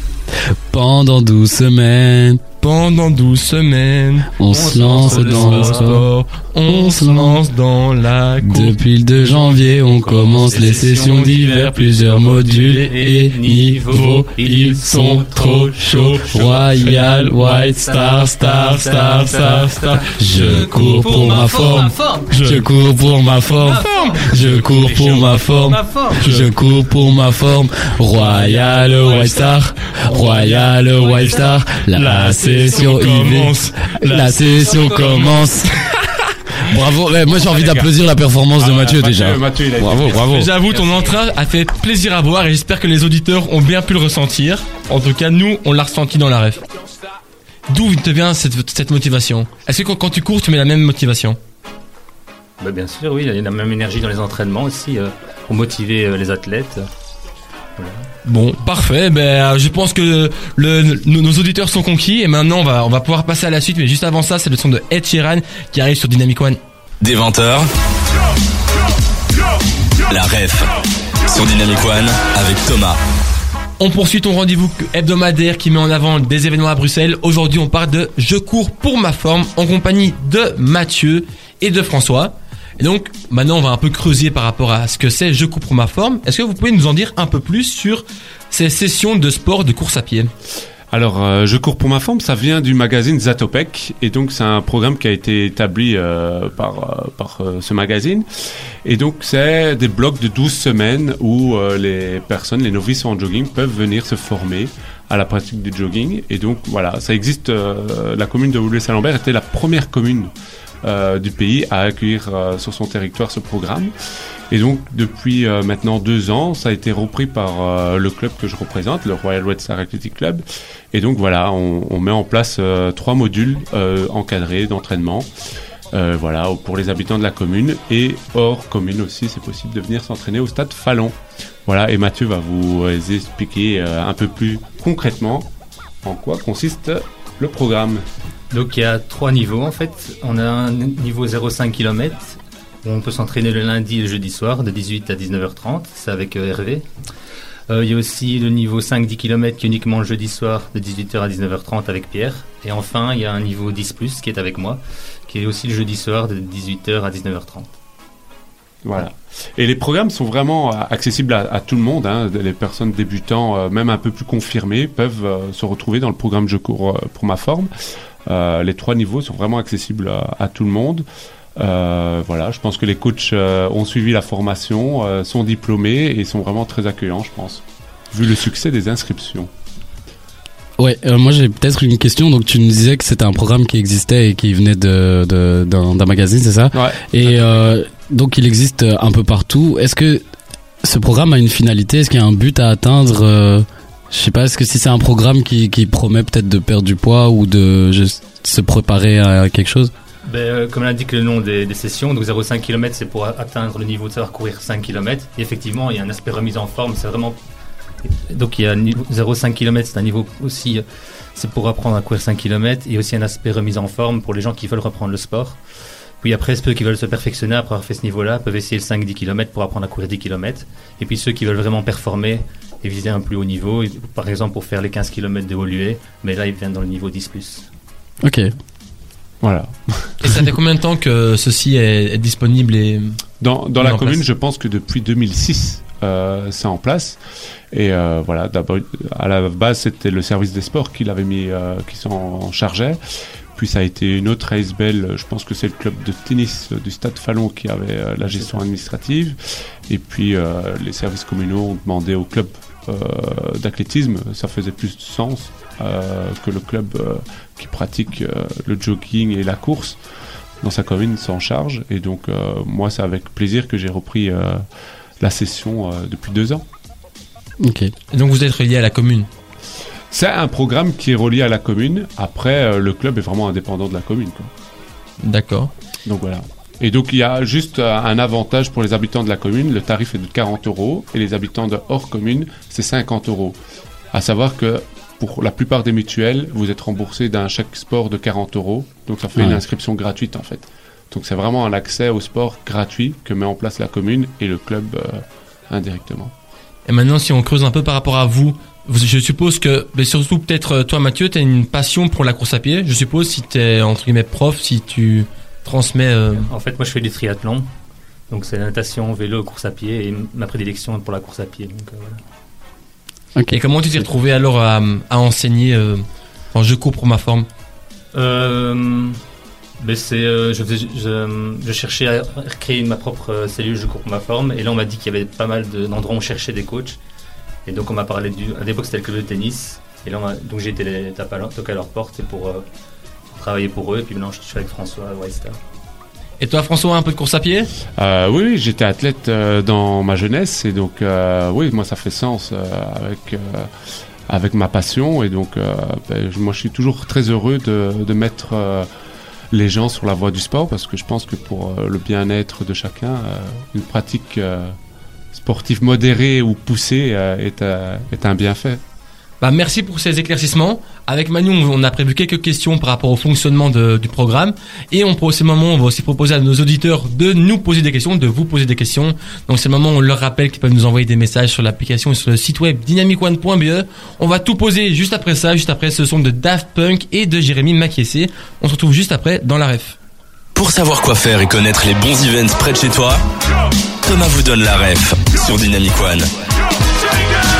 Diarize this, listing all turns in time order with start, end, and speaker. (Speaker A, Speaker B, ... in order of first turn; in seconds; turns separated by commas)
Speaker A: 0.3-2.4, Speaker B: 2.6-8.8, Speaker A: 4.4-6.1, Speaker C: 4.5-6.0, Speaker A: 6.7-7.4, Speaker A: 8.4-35.9, Speaker C: 9.9-16.4, Speaker B: 10.4-12.9, Speaker B: 13.9-17.7, Speaker C: 17.4-22.4, Speaker B: 18.4-22.7, Speaker C: 23.2-26.3, Speaker B: 26.2-26.5, Speaker C: 28.3-29.6, Speaker B: 28.3-28.6, Speaker B: 30.0-30.7, Speaker C: 30.1-31.7, Speaker B: 31.9-36.1, Speaker C: 32.2-33.0, Speaker C: 34.5-35.3, Speaker A: 36.6-40.5, Speaker D: 37.3-37.9, Speaker D: 38.6-40.5, Speaker B: 40.1-46.6, Speaker C: 40.7-41.1, Speaker B: 47.7-51.4, Speaker C: 52.6-56.9, Speaker C: 57.8-58.1, Speaker B: 58.2-66.6, Speaker E: 67.0-67.7, Speaker E: 70.1-70.7, Speaker E: 71.3-73.0, Speaker B: 73.8-90.3, Speaker D: 90.9-98.2, Speaker D: 98.8-110.3, Speaker D: 110.8-113.9, Speaker D: 114.5-125.3, Speaker D: 125.9-135.5, Speaker D: 136.0-138.1, Speaker C: 138.5-146.9, Speaker C: 147.7-157.7, Speaker D: 158.8-167.7, Speaker D: 168.2-171.0, Speaker D: 171.6-179.5, Speaker A: 180.8-190.2, Speaker D: 186.7-187.7, Speaker A: 190.8-199.9, Speaker C: 200.2-207.4, Speaker C: 208.0-215.6, Speaker C: 216.2-227.7, Speaker A: 228.2-228.5, Speaker D: 229.4-230.3, Speaker B: 230.2-233.2, Speaker D: 233.4-237.2, Speaker B: 233.8-234.2, Speaker D: 237.7-243.0, Speaker D: 243.5-249.4, Speaker C: 248.3-248.6, Speaker D: 249.9-260.0, Speaker D: 260.6-264.6, Speaker D: 265.2-266.6, Speaker A: 267.6-267.9, Speaker B: 268.1-269.3, Speaker D: 270.1-274.5, Speaker B: 275.2-275.7, Speaker D: 276.0-283.6, Speaker D: 284.1-296.3, Speaker B: 296.9-306.5, Speaker C: 306.4-307.7, Speaker C: 308.3-312.2, Speaker A: 313.3-313.6, Speaker B: 313.5-317.5, Speaker C: 318.1-319.2, Speaker C: 319.8-327.0, Speaker C: 327.6-332.6, Speaker C: 333.3-335.6, Speaker B: 336.4-337.7, Speaker D: 337.9-343.7, Speaker D: 344.3-348.9, Speaker D: 349.5-354.8, Speaker D: 355.3-358.8, Speaker B: 359.4-379.9, Speaker E: 380.5-383.2, Speaker E: 384.0-386.3